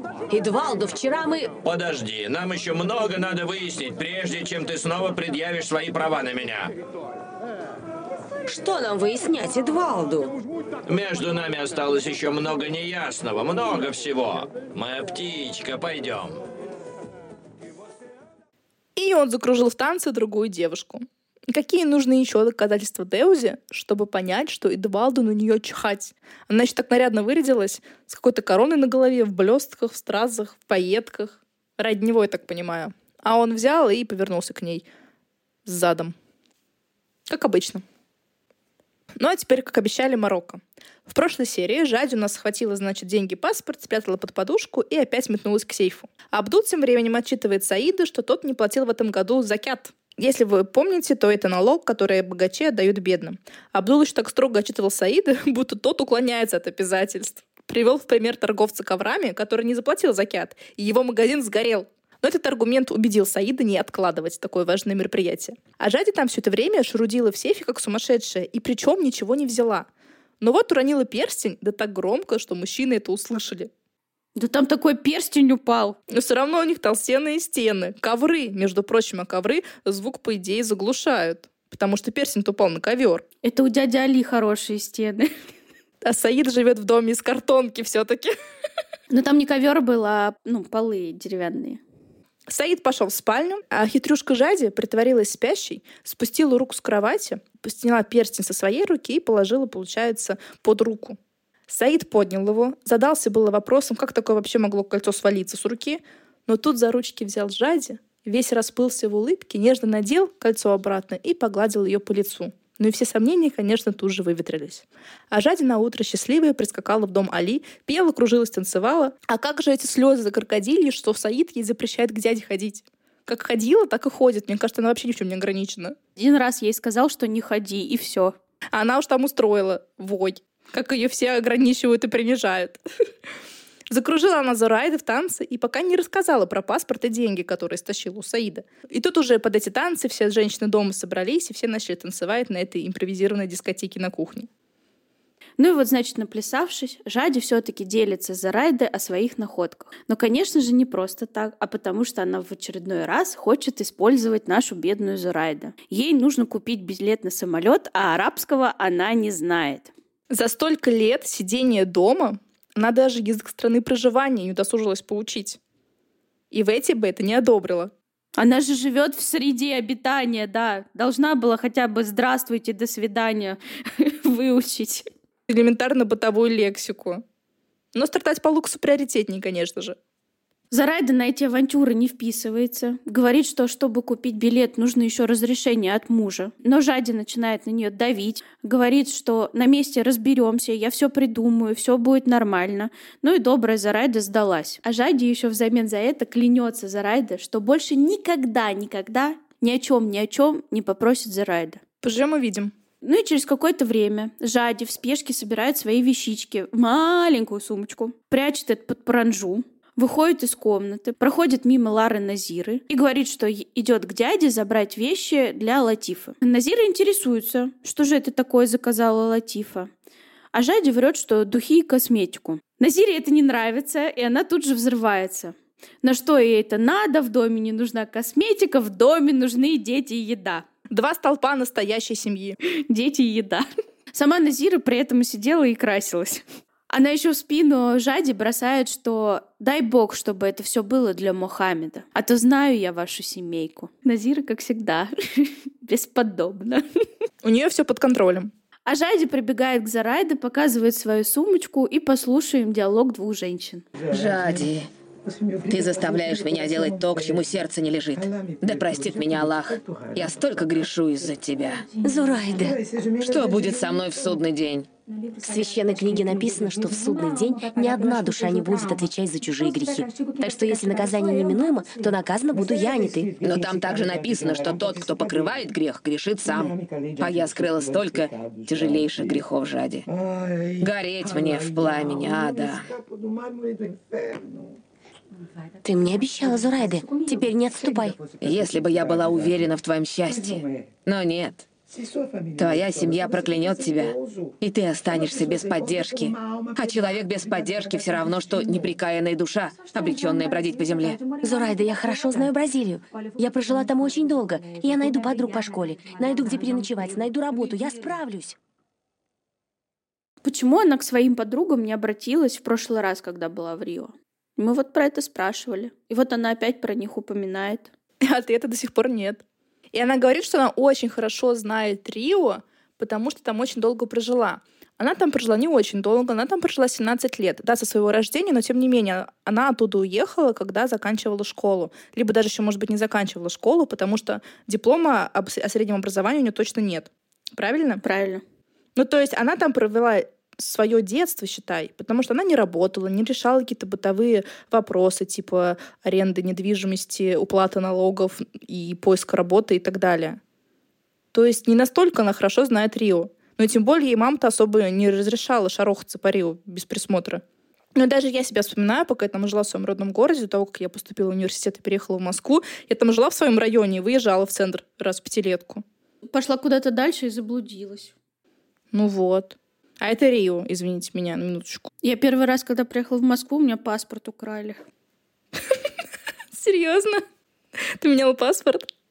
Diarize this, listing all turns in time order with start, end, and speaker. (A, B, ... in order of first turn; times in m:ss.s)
0:00.3-0:01.5 A
0:01.6-0:06.7 B
0:08.5-0:10.4 A
0:10.9-0:16.4 B
0:19.0-0:34.8 C
0:35.7-0:36.2 C
0:37.3-0:37.8 C
0:39.2-1:09.9 C
1:10.4-1:13.7 C
1:14.4-1:16.0 D
1:16.1-1:23.2 C
1:23.4-1:25.3 D
1:26.0-1:28.3 C
1:29.1-1:31.8 D
1:32.5-1:41.2 C
1:41.7-2:06.0 C
2:06.2-2:08.4 D
2:08.7-2:12.8 C
2:13.9-2:24.5 C
2:25.6-2:39.9 D
2:40.3-2:45.6 C
2:46.5-2:47.9 C
2:48.4-2:55.1 D
2:55.5-2:57.2 C
2:58.0-3:00.0 C
3:00.7-3:21.8 D
3:22.0-3:22.7 C
3:23.0-3:39.9 D
3:40.5-3:50.6 D
3:50.9-3:52.6 C
3:52.9-4:06.8 D
4:07.4-4:08.5 C
4:08.9-4:13.8 D
4:14.1-4:14.9 E
4:15.6-4:21.8 E
4:22.0-4:22.8 A
4:23.2-4:24.9 E
4:25.4-4:33.4 A
4:33.4-4:40.1 E
4:40.8-4:42.9 E
4:45.8-4:48.2 A
4:48.4-4:51.7 E
4:52.6-5:01.2 E
5:01.4-5:08.6 A
5:10.4-5:17.9 D
5:18.2-5:19.4 C
5:19.9-5:38.0 C
5:38.0-5:38.4 D
5:39.0-5:50.4 C
5:51.3-5:57.4 C
5:58.0-6:05.8 C
6:06.3-6:08.1 D
6:08.9-6:11.9 C
6:12.0-6:14.8 D
6:16.5-6:17.2 C
6:18.0-6:18.9 C